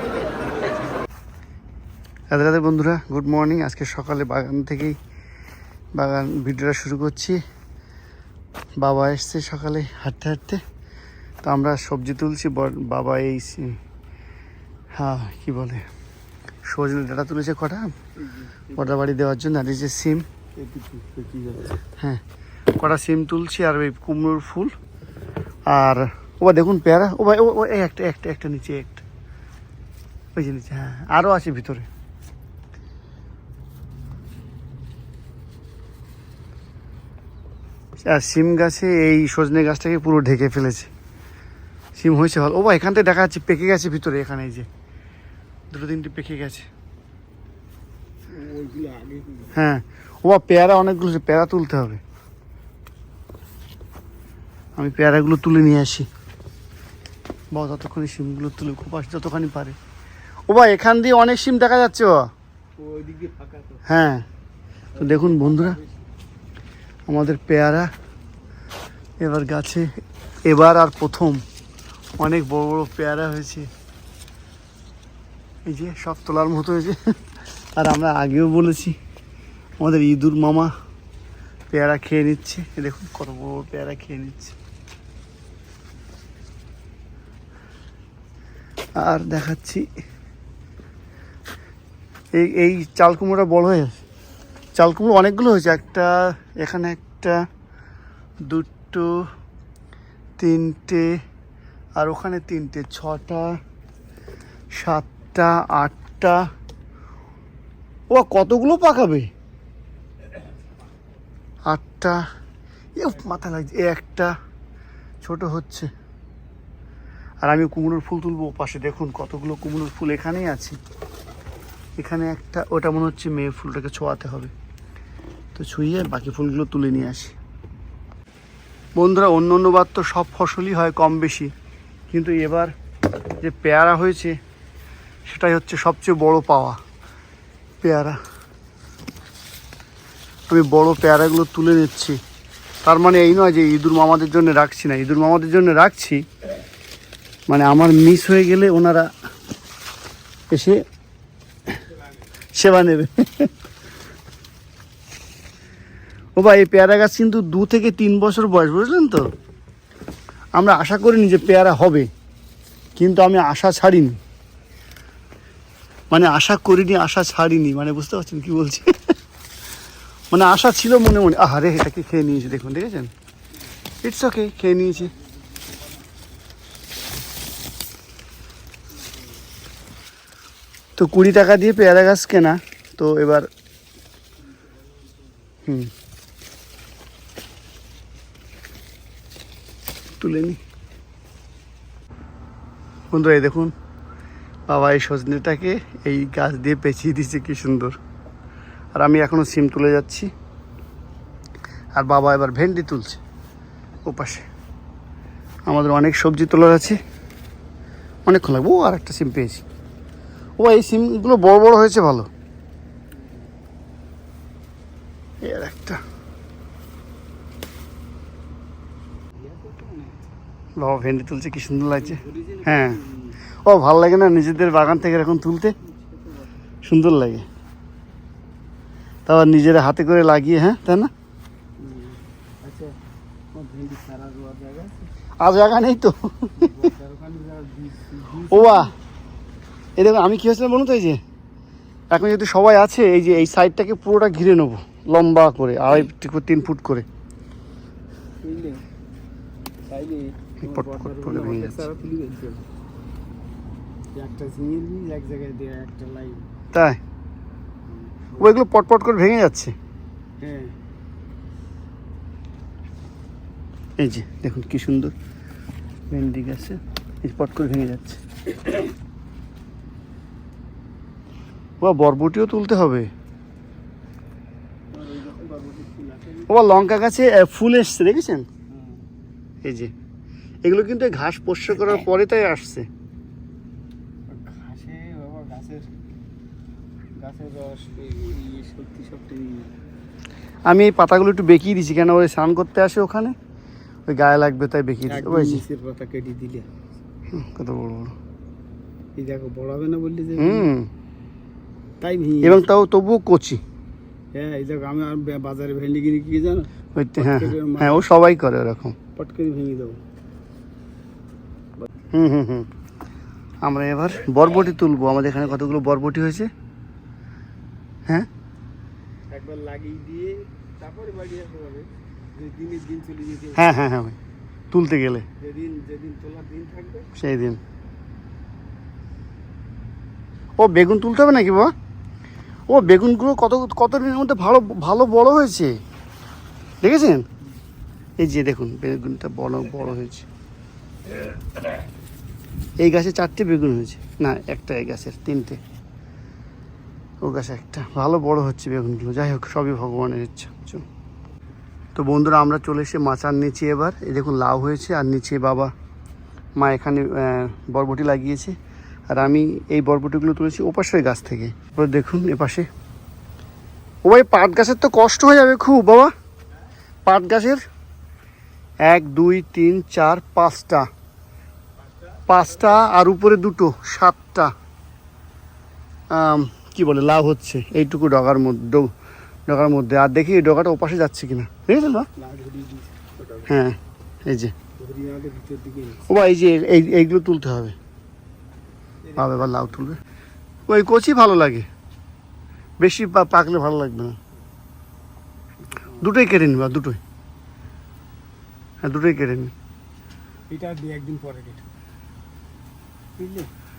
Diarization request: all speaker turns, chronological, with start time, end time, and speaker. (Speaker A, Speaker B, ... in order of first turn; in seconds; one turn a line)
Speaker A: 2.3-5.0
Speaker A: 6.0-7.4
Speaker A: 8.8-10.6
Speaker A: 11.4-13.8
Speaker A: 14.9-15.8
Speaker A: 16.7-17.9
Speaker B: 18.2-18.9
Speaker A: 18.8-20.2
Speaker B: 20.6-21.8
Speaker A: 22.8-24.7
Speaker A: 25.7-29.0
Speaker A: 30.4-31.9
Speaker A: 38.0-40.9
Speaker A: 42.0-44.7
Speaker A: 45.7-46.7
Speaker B: 48.3-49.5
Speaker A: 49.5-52.0
Speaker A: 54.8-56.1
Speaker A: 57.5-59.8
Speaker A: 60.5-62.2
Speaker B: 62.8-63.8
Speaker A: 63.9-64.2
Speaker B: 64.9-66.0
Speaker A: 65.0-65.8
Speaker A: 67.1-67.9
Speaker A: 69.2-69.8
Speaker A: 70.5-71.4
Speaker A: 72.2-73.7
Speaker A: 75.7-77.0
Speaker A: 77.8-79.0
Speaker A: 79.8-80.7
Speaker A: 81.7-84.5
Speaker A: 89.0-89.8
Speaker A: 92.3-94.0
Speaker A: 94.8-97.4
Speaker A: 98.5-99.1
Speaker A: 100.4-101.1
Speaker A: 102.0-103.6
Speaker A: 104.8-106.4
Speaker A: 108.1-109.3
Speaker A: 111.7-112.2
Speaker A: 113.0-114.3
Speaker A: 115.2-115.9
Speaker A: 117.4-120.8
Speaker A: 122.0-124.5
Speaker A: 125.5-127.3
Speaker A: 128.9-131.5
Speaker A: 132.1-132.7
Speaker A: 133.4-134.3
Speaker A: 135.3-136.8
Speaker A: 137.8-138.2
Speaker A: 140.5-142.2
Speaker A: 142.8-146.2
Speaker A: 147.5-149.1
Speaker A: 150.5-150.8
Speaker A: 152.6-153.5
Speaker A: 156.3-159.2
Speaker A: 160.6-162.1
Speaker A: 163.0-164.2
Speaker A: 166.1-169.1
Speaker A: 170.3-173.1
Speaker A: 174.0-175.1
Speaker A: 181.0-183.5
Speaker A: 190.2-190.6
Speaker A: 193.1-193.7
Speaker A: 194.7-198.0
Speaker A: 198.9-200.3
Speaker A: 201.9-203.2
Speaker A: 204.0-204.5
Speaker A: 205.7-207.0
Speaker A: 208.2-209.6
Speaker A: 210.6-212.3
Speaker B: 213.1-213.5
Speaker A: 215.4-216.0
Speaker B: 219.3-220.2
Speaker A: 220.8-223.0
Speaker B: 222.0-223.3
Speaker A: 223.6-225.7
Speaker B: 225.8-226.5
Speaker A: 226.8-227.4
Speaker A: 229.2-231.1
Speaker B: 231.8-232.9
Speaker B: 233.5-235.1
Speaker A: 235.4-236.7
Speaker B: 236.6-238.9
Speaker A: 238.5-238.9
Speaker A: 240.0-241.2
Speaker A: 242.1-247.1
Speaker B: 248.4-248.8
Speaker B: 249.9-252.6
Speaker A: 250.6-251.9
Speaker B: 254.1-256.4
Speaker A: 256.7-257.0
Speaker B: 257.9-258.5
Speaker A: 258.4-259.7
Speaker B: 260.4-260.7
Speaker A: 264.0-265.1
Speaker A: 266.1-268.2
Speaker A: 271.8-273.1
Speaker B: 274.9-276.5
Speaker A: 276.5-278.5
Speaker B: 278.7-279.0
Speaker A: 279.6-279.9
Speaker A: 280.6-282.9
Speaker B: 284.3-285.9
Speaker B: 287.2-289.7
Speaker A: 290.7-293.3
Speaker A: 294.1-295.6
Speaker B: 295.1-296.7
Speaker A: 297.3-298.1
Speaker B: 299.1-300.7
Speaker A: 300.4-300.9
Speaker B: 302.0-302.6
Speaker A: 302.4-303.6
Speaker B: 304.3-308.0
Speaker A: 306.9-308.9
Speaker B: 309.1-310.0
Speaker A: 312.1-312.7
Speaker A: 313.6-316.5
Speaker B: 319.3-323.7
Speaker A: 323.6-324.1
Speaker A: 324.7-325.2
Speaker B: 325.4-327.1
Speaker A: 327.2-327.6
Speaker A: 330.6-331.7
Speaker A: 332.7-335.7
Speaker A: 336.8-337.2
Speaker A: 338.2-340.2
Speaker A: 342.8-345.6
Speaker A: 347.2-350.8
Speaker A: 351.9-355.7
Speaker A: 356.6-358.6
Speaker A: 359.1-362.7
Speaker A: 364.0-366.1
Speaker A: 367.1-367.6
Speaker A: 368.9-370.9
Speaker A: 372.3-374.5
Speaker A: 376.1-378.9
Speaker A: 379.5-382.1
Speaker B: 382.2-383.5
Speaker A: 383.5-384.5
Speaker B: 384.8-386.0
Speaker A: 386.1-387.8
Speaker B: 389.0-389.8
Speaker A: 389.2-390.0
Speaker A: 390.7-391.7
Speaker A: 392.8-394.2
Speaker B: 395.6-396.1
Speaker A: 396.0-397.0
Speaker A: 398.8-399.5
Speaker B: 400.5-401.6
Speaker B: 403.2-403.5